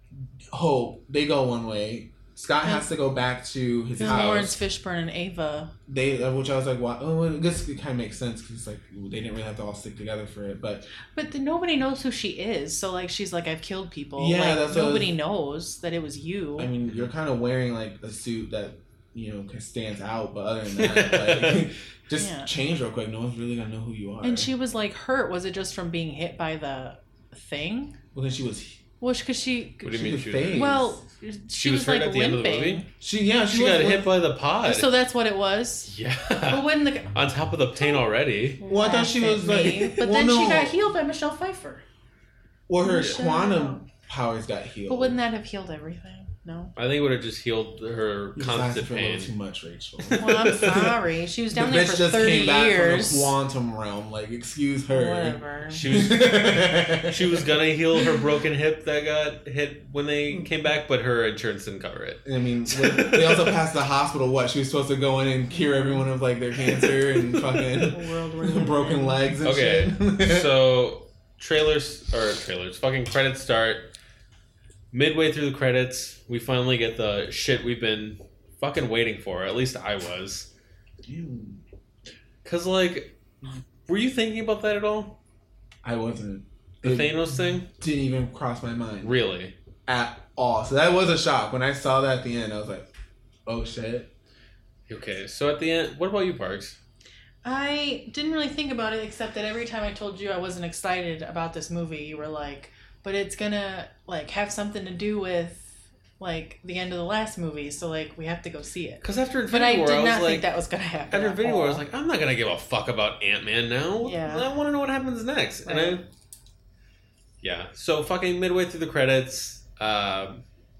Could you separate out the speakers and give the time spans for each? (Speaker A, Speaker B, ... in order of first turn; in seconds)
Speaker A: 0.5-4.6, 5.9-10.9, 14.2-15.1, 16.6-24.5, 28.1-28.8, 29.8-30.9, 33.0-34.1, 38.6-40.8, 42.7-45.2, 48.3-50.8, 51.5-57.4, 62.2-70.5, 81.0-81.6, 85.8-89.2, 89.9-92.9, 93.5-94.1
Speaker B: 4.0-5.7, 11.1-16.7, 22.1-22.5, 24.2-28.0, 29.0-32.9, 34.6-35.9, 36.5-37.2, 37.8-38.0, 38.6-41.8, 42.8-43.8, 44.9-46.7, 50.1-53.4, 54.9-55.8, 65.5-66.0, 67.8-69.2, 97.4-111.8, 114.0-114.5, 115.6-116.0
Speaker C: 4.0-4.5, 16.8-17.1, 20.7-21.7, 29.8-30.8, 31.6-32.9, 33.5-34.9, 35.8-38.6, 46.8-49.3, 50.0-50.9, 55.7-63.6, 66.8-67.9, 69.4-73.9, 74.9-80.5, 82.4-83.2, 83.8-85.2, 86.8-87.7, 89.0-89.5, 94.9-96.8, 109.0-110.5, 111.1-116.0, 117.4-120.4